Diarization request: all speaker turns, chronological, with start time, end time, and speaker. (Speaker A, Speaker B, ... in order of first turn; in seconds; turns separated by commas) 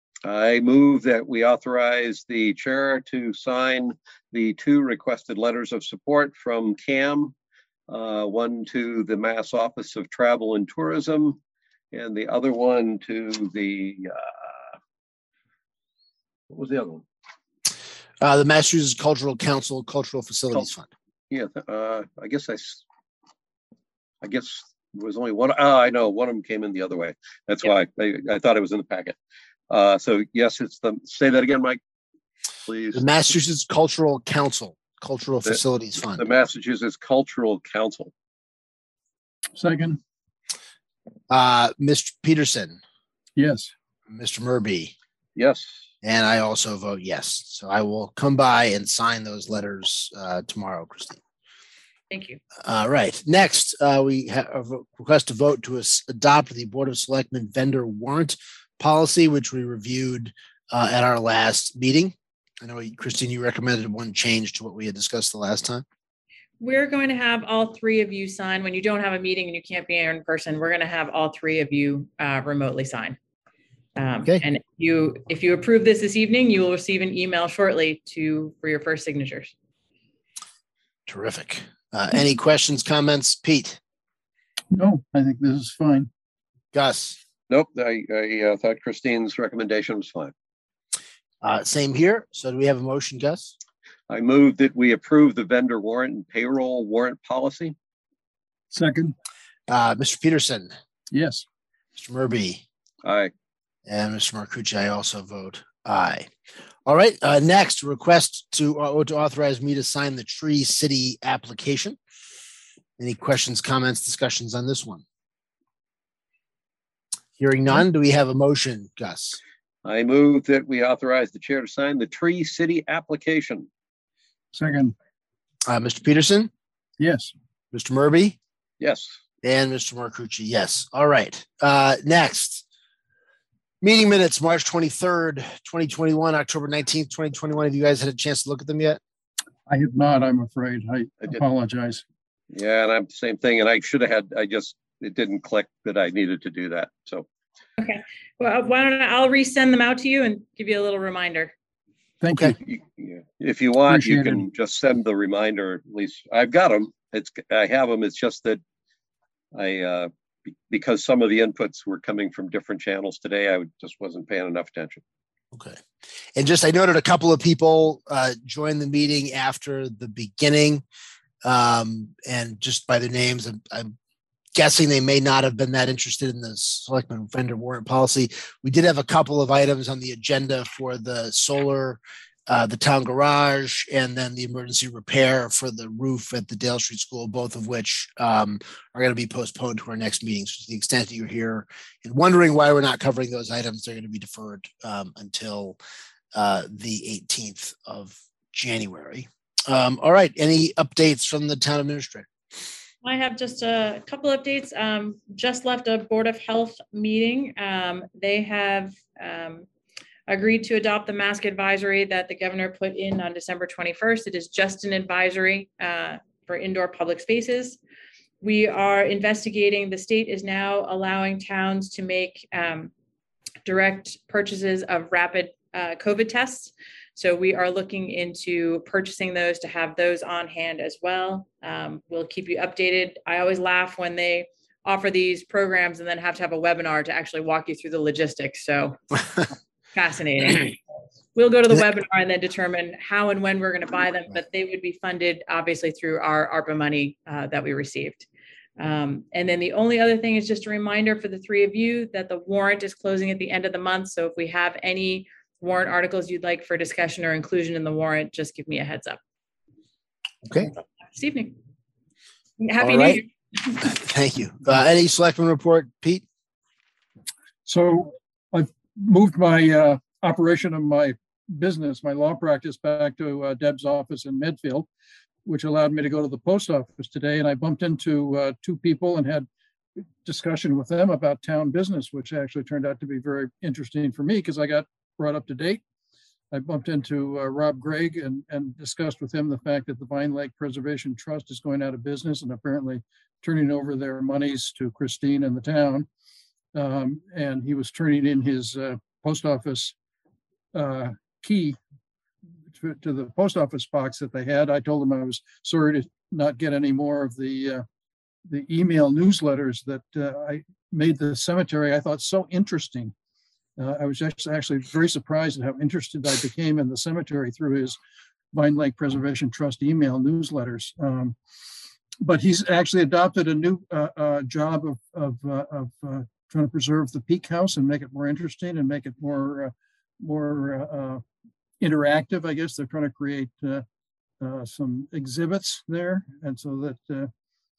Speaker A: 0.2-7.3, Speaker A: 7.9-11.4, Speaker A: 11.9-14.7, Speaker A: 16.5-17.0, Speaker B: 18.2-20.9, Speaker A: 21.3-22.8, Speaker A: 24.2-29.2, Speaker A: 29.7-31.8, Speaker A: 32.6-33.1, Speaker B: 32.9-36.2, Speaker A: 36.1-38.1, Speaker C: 39.5-40.0, Speaker B: 41.3-42.8, Speaker C: 43.4-43.7, Speaker B: 44.1-44.9, Speaker A: 45.4-45.8, Speaker B: 46.0-51.2, Speaker D: 52.1-52.4, Speaker B: 52.6-65.8, Speaker D: 66.6-73.2, Speaker D: 74.0-79.5, Speaker B: 81.1-83.8, Speaker C: 84.7-86.1, Speaker B: 86.7-87.2, Speaker A: 87.5-90.3, Speaker B: 91.4-93.5, Speaker A: 94.1-97.7, Speaker C: 98.7-99.1, Speaker B: 99.7-100.7, Speaker C: 101.1-101.4, Speaker B: 102.0-102.6, Speaker A: 103.0-103.3, Speaker B: 103.8-106.3, Speaker B: 106.8-112.0, Speaker B: 113.0-115.0, Speaker B: 117.4-119.4, Speaker A: 119.8-123.7, Speaker C: 124.5-124.9, Speaker B: 125.7-126.5, Speaker C: 127.0-127.3, Speaker B: 127.7-128.4, Speaker A: 128.8-129.2, Speaker B: 129.4-132.6, Speaker B: 133.8-139.0, Speaker C: 139.7-142.0, Speaker A: 142.5-147.2, Speaker D: 147.8-151.5, Speaker C: 152.2-152.6, Speaker A: 152.6-158.6, Speaker C: 153.9-154.4, Speaker A: 159.5-165.0, Speaker B: 165.5-165.8, Speaker B: 166.3-170.8, Speaker B: 171.4-173.9, Speaker B: 174.6-195.8, Speaker B: 196.3-202.3, Speaker D: 203.0-209.7, Speaker D: 210.3-217.8, Speaker D: 218.4-222.9, Speaker D: 223.6-239.0, Speaker D: 239.9-240.8, Speaker D: 241.3-248.3, Speaker D: 248.8-259.2, Speaker B: 260.4-260.7, Speaker D: 261.1-261.5, Speaker D: 262.6-263.8, Speaker B: 262.8-263.2, Speaker B: 263.8-266.2, Speaker C: 267.6-274.9, Speaker C: 275.4-279.5, Speaker C: 280.2-285.8, Speaker C: 286.5-296.1, Speaker C: 296.7-299.9, Speaker C: 300.7-301.8, Speaker C: 302.7-307.8, Speaker C: 308.5-313.1, Speaker C: 313.8-318.0, Speaker C: 318.5-321.4, Speaker C: 322.2-331.2, Speaker C: 331.8-333.8, Speaker C: 334.4-337.3